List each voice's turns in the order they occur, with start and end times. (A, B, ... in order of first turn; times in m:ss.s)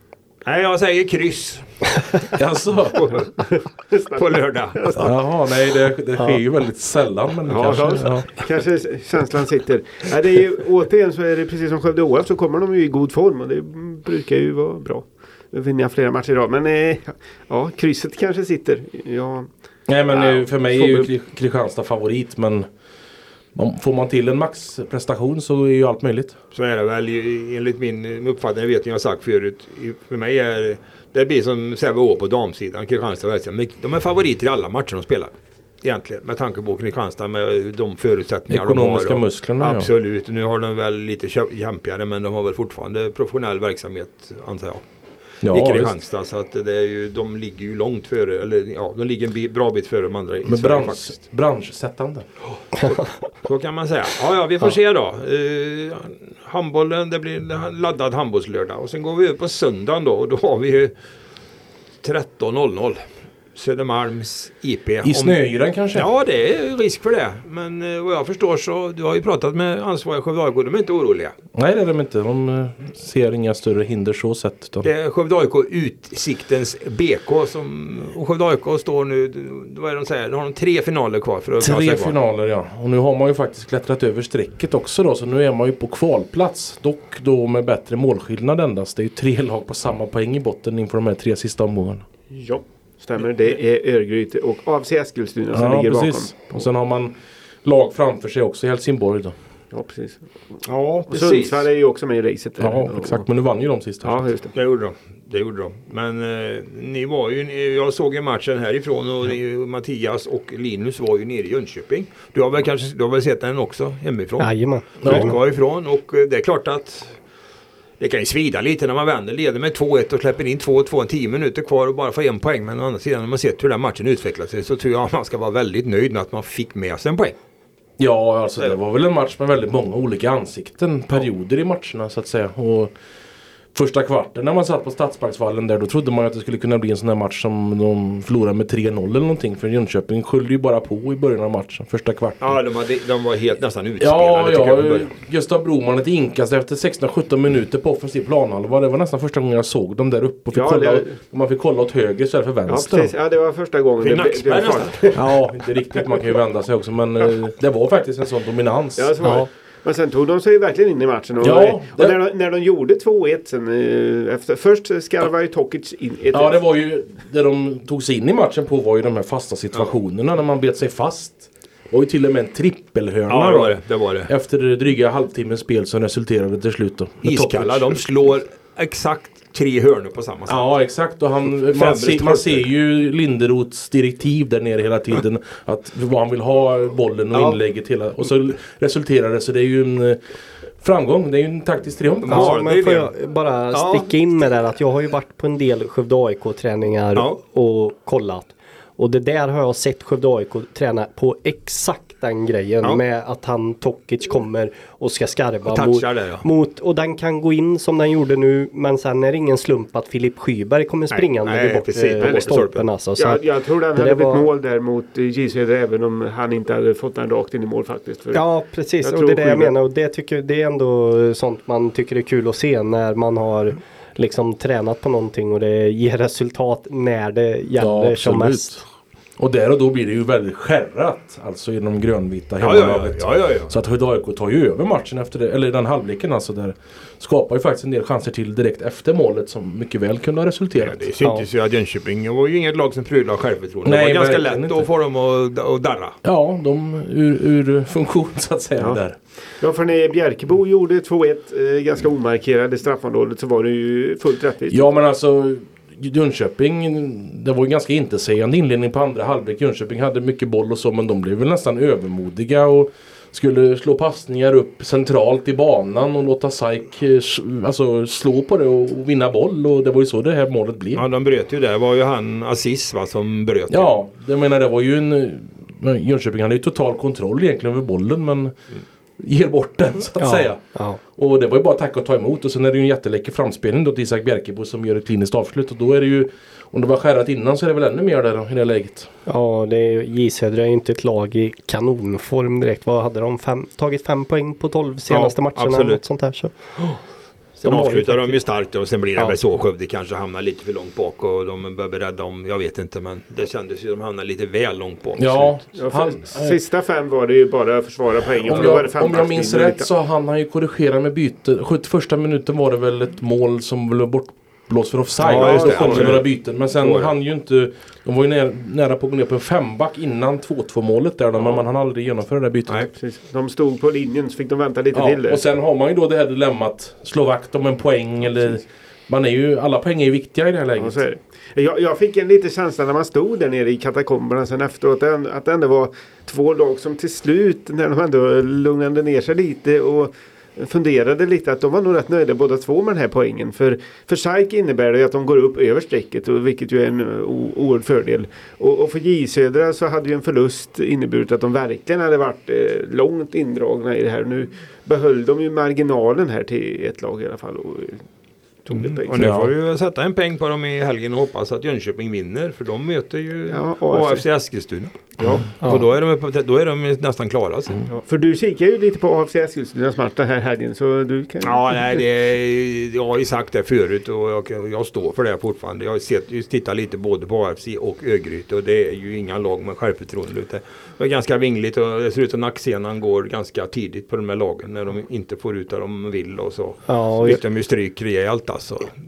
0:00.4-0:02.3 A
0:02.3-0:03.1 B
0:02.9-0:03.6 A
0:03.9-0:05.1 C
0:04.1-0:05.1 A
0:05.0-0:08.3 B
0:07.5-0:19.5 C
0:19.9-0:22.7 B
0:20.1-0:21.1 C
0:23.6-0:26.4 B
0:26.5-0:44.8 A
0:38.5-0:39.9 B
0:45.4-0:46.0 B
0:45.5-0:51.2 A
0:50.4-0:52.3 B
0:52.7-1:00.9 A
1:02.0-1:03.0 A
1:03.6-1:05.4 A
1:05.0-1:06.1 B
1:05.9-1:11.4 A
1:11.6-1:14.9 B
1:14.8-1:22.2 A
1:21.6-1:32.0 B
1:32.3-1:36.7 C
1:35.5-1:39.4 B
1:39.7-1:40.2 C
1:40.6-1:41.7 A
1:41.1-1:43.3 C
1:42.6-1:44.3 B
1:44.0-1:44.5 C
1:44.5-1:57.2 A
1:54.4-1:55.3 D
1:55.0-1:55.3 B
1:58.0-2:07.4 A
2:08.0-2:12.9 B
2:13.7-2:22.6 B
2:22.4-2:25.1 A
2:24.0-2:33.1 B
2:30.5-2:31.2 C
2:32.7-2:36.1 C
2:34.0-2:35.0 A
2:35.1-2:39.2 B
2:39.0-2:46.6 C
2:39.2-2:39.5 D
2:41.4-2:42.2 B
2:46.3-2:58.0 B
2:53.3-2:54.3 A
2:57.2-3:00.6 A
3:00.5-3:10.2 B
3:01.7-3:02.6 A
3:10.8-3:12.6 B
3:12.2-3:13.1 A
3:12.3-3:34.5 D
3:13.7-3:14.1 A
3:25.7-3:26.5 A
3:31.1-3:32.8 A
3:32.3-3:32.5 C
3:33.2-3:38.4 C
3:38.3-3:48.8 D
3:39.0-3:39.7 C
3:47.8-3:48.8 B
3:49.4-4:01.0 B
3:52.6-3:53.7 A
4:00.8-4:06.2 A
4:01.2-4:01.5 D
4:03.8-4:04.9 B
4:06.2-4:09.2 B
4:09.6-4:14.9 C
4:14.7-4:31.0 B
4:31.0-4:33.9 A
4:33.7-4:38.6 B
4:39.2-4:40.6 B
4:40.2-4:41.0 D
4:41.2-4:49.1 B
4:49.3-4:56.5 D
4:55.1-4:56.0 A
4:57.6-4:58.4 D
4:57.6-5:05.6 A
5:05.2-5:06.6 B
5:05.8-5:09.9 C
5:08.4-5:22.9 B
5:15.2-5:17.1 A
5:15.3-5:16.2 C
5:21.4-5:21.6 C
5:22.9-5:25.4 C
5:24.9-5:31.0 B
5:30.8-5:58.0 C
5:58.6-5:59.3 C
5:58.7-6:07.8 A
5:59.2-5:59.5 B
6:03.5-6:04.2 C
6:05.2-6:05.5 C
6:07.9-6:11.8 C
6:11.4-6:28.9 A
6:26.9-6:27.4 D